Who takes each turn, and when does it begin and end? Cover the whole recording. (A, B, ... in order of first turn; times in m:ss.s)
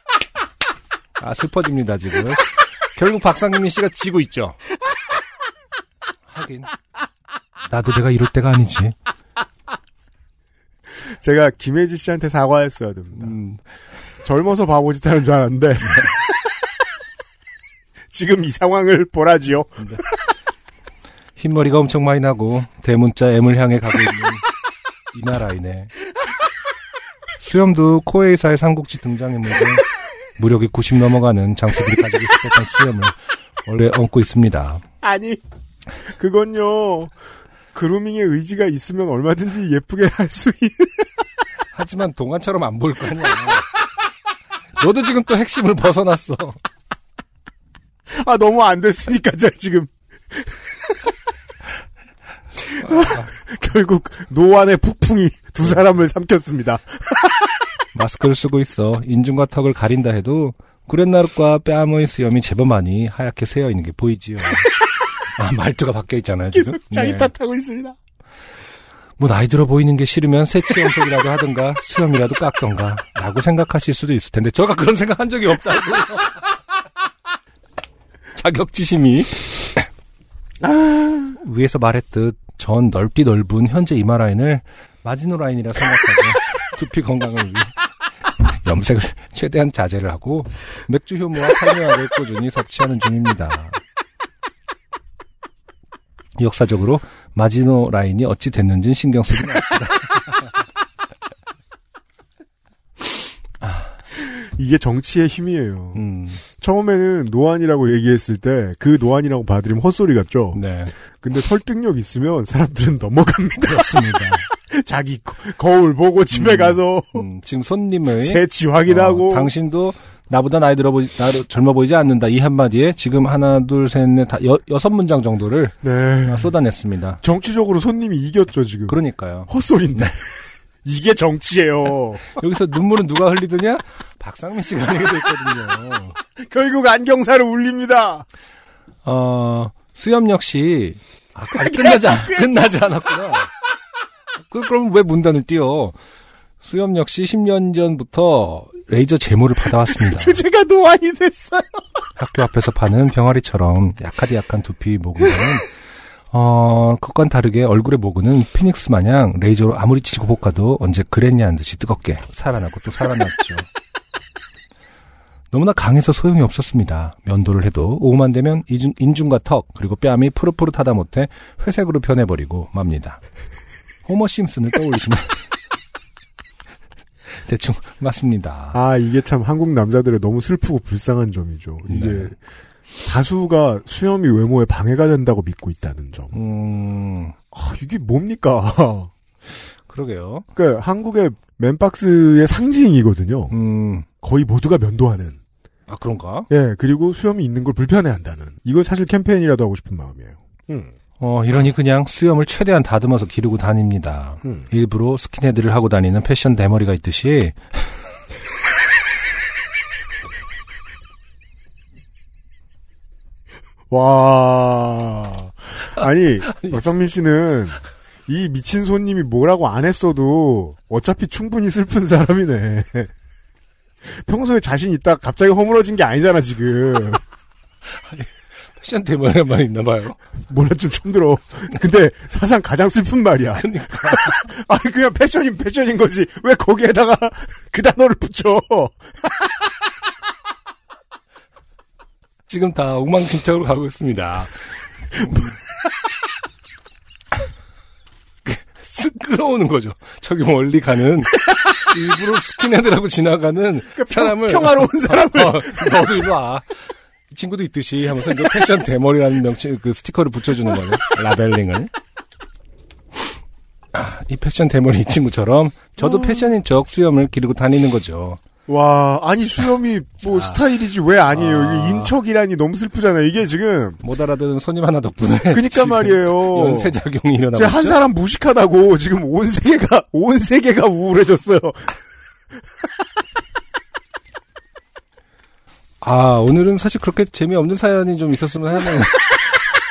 0:01.2-0:04.6 A
0:06.3-0:06.7 A
0:07.6-0:09.0 A
0:11.0-0:13.4 B
0:13.2-0:13.6 A
0:14.2-0:16.2 B
0:18.1-0:20.1 B
0:21.4-0:24.4 A
0:25.1-0:25.9 A
0:27.4-0:29.9 A
0:30.4-0:34.8 A
0:35.0-0:35.4 B
0:36.1-0:37.1 B
0:37.7-0:41.1 B
0:41.7-0:43.7 A
0:44.8-0:46.6 A
0:48.1-0:50.5 B
0:52.8-0:57.4 B
0:52.8-0:53.3 A
0:57.9-1:04.7 A
1:05.3-1:07.3 A
1:06.5-1:08.0 B
1:09.2-1:16.4 A
1:18.4-1:19.8 A
1:20.6-1:21.3 B
1:21.3-1:27.8 A
1:28.4-1:33.8 A
1:36.4-1:40.5 A
1:43.6-1:43.9 A
1:44.2-1:50.6 B
1:46.0-1:46.4 A
1:50.5-1:50.9 A
1:51.1-1:57.3 B
1:53.6-1:54.5 A
1:56.3-2:07.2 A
1:58.2-1:59.5 B
2:05.8-2:06.5 B
2:07.2-2:09.0 B
2:08.9-2:09.5 A
2:09.5-2:12.4 B
2:12.3-2:16.2 A
2:16.4-2:18.2 B
2:19.0-2:23.5 A
2:21.5-2:22.7 B
2:24.4-2:26.0 A
2:26.6-2:30.4 A
2:29.7-2:31.8 B
2:32.2-2:35.7 A
2:36.3-2:43.7 A
2:45.5-2:53.2 A
2:54.0-2:55.4 A
2:57.3-2:58.8 A
2:58.7-3:02.4 B
3:01.9-3:02.3 A
3:03.0-3:06.4 B
3:06.3-3:07.4 A
3:07.5-3:09.1 B
3:09.9-3:10.5 A
3:10.6-3:13.6 B
3:13.5-3:14.1 A
3:14.2-3:15.4 B
3:15.9-3:16.5 A
3:16.5-3:20.9 B
3:21.2-3:27.6 A
3:33.9-3:43.1 B
3:44.1-3:47.2 B
3:48.0-3:50.2 A
3:50.5-3:59.0 B
3:53.5-3:54.4 A
4:02.5-4:05.5 A
4:08.4-4:21.9 A
4:14.0-4:16.2 B
4:23.9-4:28.4 A
4:26.0-4:26.5 B
4:28.7-4:34.0 B
4:30.2-4:30.6 A
4:31.3-4:32.2 A
4:34.0-4:38.0 A
4:35.4-4:37.0 B
4:37.5-4:41.9 B
4:46.0-4:49.4 A